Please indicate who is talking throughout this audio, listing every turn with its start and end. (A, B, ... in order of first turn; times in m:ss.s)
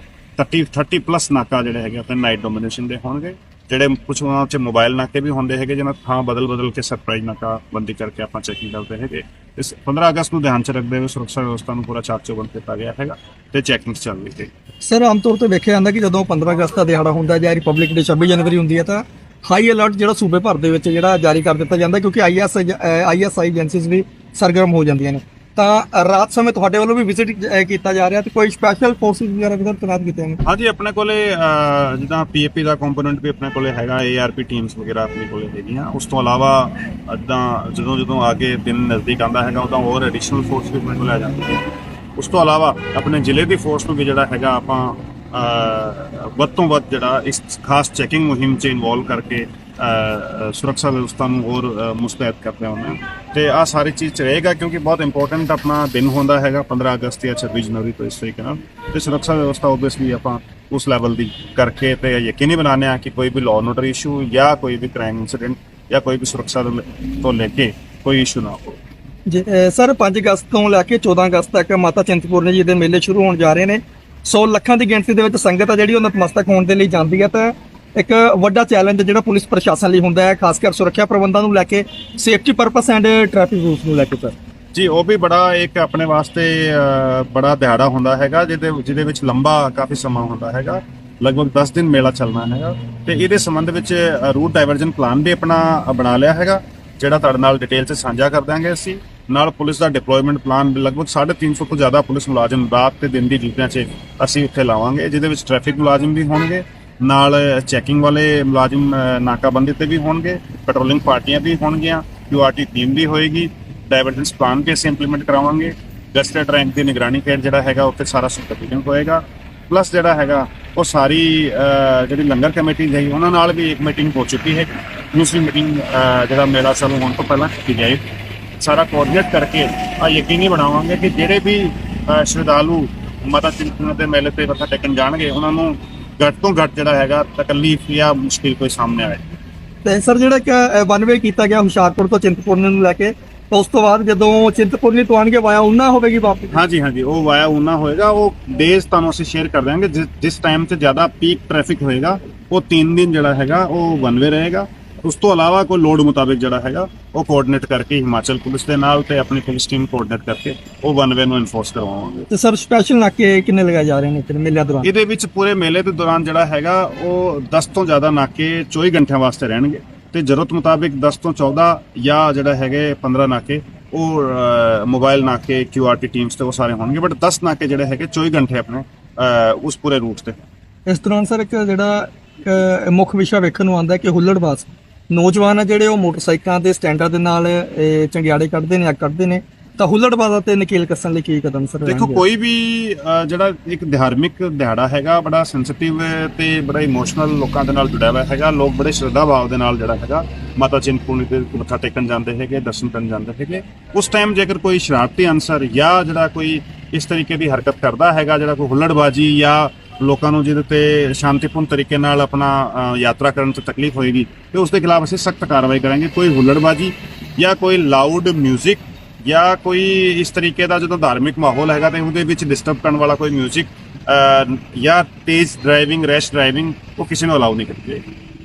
0:00.4-0:14.5 A
0:14.8-0:30.4 B
0:30.4-0:41.6 A
0:42.2-1:08.8 A
1:09.3-1:24.4 B
1:24.7-2:08.0 A
2:08.6-2:19.2 A
2:19.8-2:26.6 B
2:26.5-2:42.3 A
2:42.3-2:44.9 B
2:44.8-3:00.4 A
3:00.9-3:12.2 B
3:11.9-3:48.0 A